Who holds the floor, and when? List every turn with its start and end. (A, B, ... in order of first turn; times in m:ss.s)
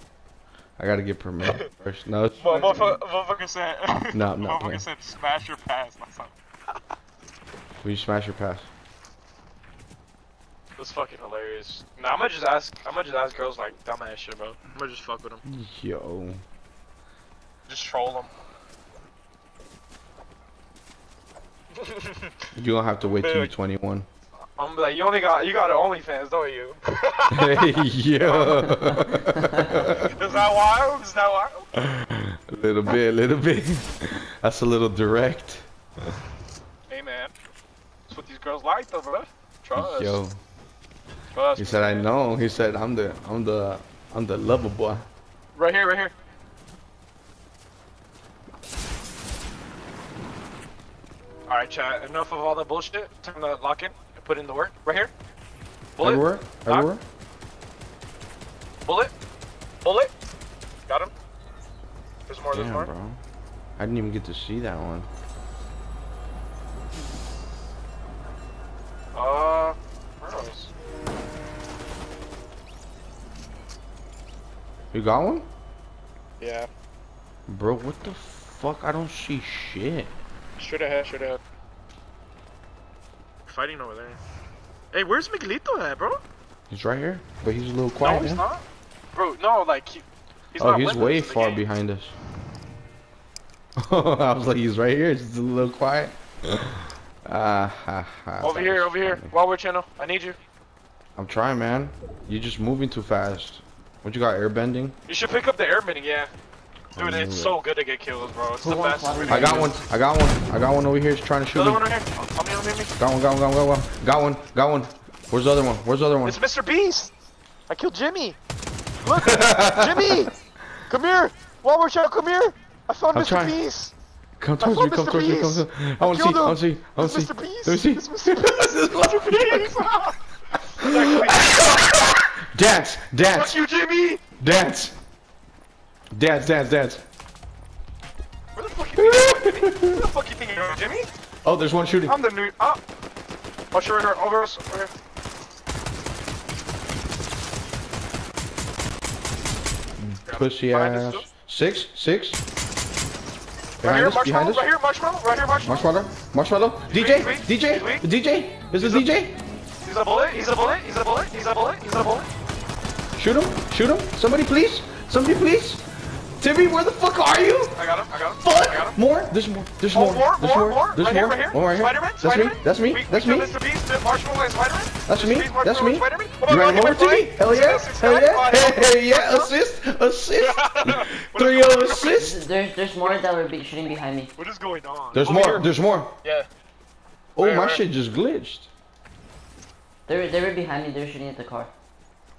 0:00.8-0:03.0 A
0:02.4-0:06.3 B
0:04.1-0:04.8 A
0:07.8-0:08.7 A
0:10.8-0:15.4 B
0:15.4-0:16.4 A
0:17.7-0:18.3 B
0:21.8-0:22.3 B
0:22.6-0:24.1 A
0:23.2-0:23.5 B
0:24.6-0:28.8 B
0:27.3-0:30.1 A
0:30.0-0:31.7 B
0:31.8-0:35.7 A
0:36.9-0:37.3 B
0:38.1-0:40.2 B
0:39.8-0:40.4 A
0:41.4-0:42.1 B
0:41.6-0:45.1 A
0:45.6-0:46.1 B
0:51.5-0:55.1 B
0:56.0-0:56.9 B
0:56.0-0:57.0 A
0:58.9-0:59.1 B
0:59.8-1:00.1 B
1:00.9-1:01.1 B
1:02.3-1:02.9 B
1:02.5-1:03.2 A
1:03.8-1:05.1 A
1:09.1-1:10.7 B
1:14.9-1:15.5 A
1:16.4-1:16.7 B
1:17.5-1:20.2 A
1:20.6-1:21.4 B
1:23.5-1:24.2 B
1:24.9-1:26.2 B
1:26.7-1:28.4 A
1:28.0-1:28.6 B
1:29.2-1:31.6 B
1:30.6-1:32.2 A
1:33.8-1:39.3 A
1:38.4-1:40.4 B
1:41.2-1:45.0 A
1:45.1-1:46.3 B
1:46.9-1:47.6 A
1:47.0-1:49.7 B
1:48.6-1:49.8 C
1:49.3-1:51.8 A
1:51.5-1:52.9 B
1:53.0-1:56.4 A
1:56.2-1:57.1 B
1:57.7-1:58.4 B
1:59.0-2:00.3 B
1:59.1-2:00.3 A
2:00.9-2:03.9 B
2:03.1-2:03.6 A
2:04.4-2:09.9 A
2:04.6-2:12.3 B
2:10.8-2:13.6 A
2:13.3-2:14.2 B
2:14.4-2:15.0 A
2:16.1-2:17.0 A
2:18.6-2:21.1 B
2:19.0-2:20.0 A
2:21.4-2:22.2 A
2:22.1-2:22.8 B
2:23.7-2:24.9 B
2:30.0-2:32.4 A
2:30.3-2:31.3 B
2:33.8-2:34.7 A
2:33.8-2:35.9 B
2:35.6-2:39.4 A
2:36.9-2:38.1 B
2:38.8-2:39.1 B
2:39.8-2:42.3 B
2:43.2-2:45.8 A
2:46.4-2:47.8 A
2:47.8-2:49.0 B
2:48.4-2:53.5 A
2:49.9-2:59.5 B
2:55.1-3:02.4 A
3:00.4-3:02.2 B
3:02.1-3:04.3 C
3:03.0-3:03.3 B
3:04.4-3:05.7 B
3:05.1-3:06.1 A
3:06.2-3:06.5 B
3:07.4-3:08.7 A
3:07.4-3:07.8 B
3:10.1-3:11.7 C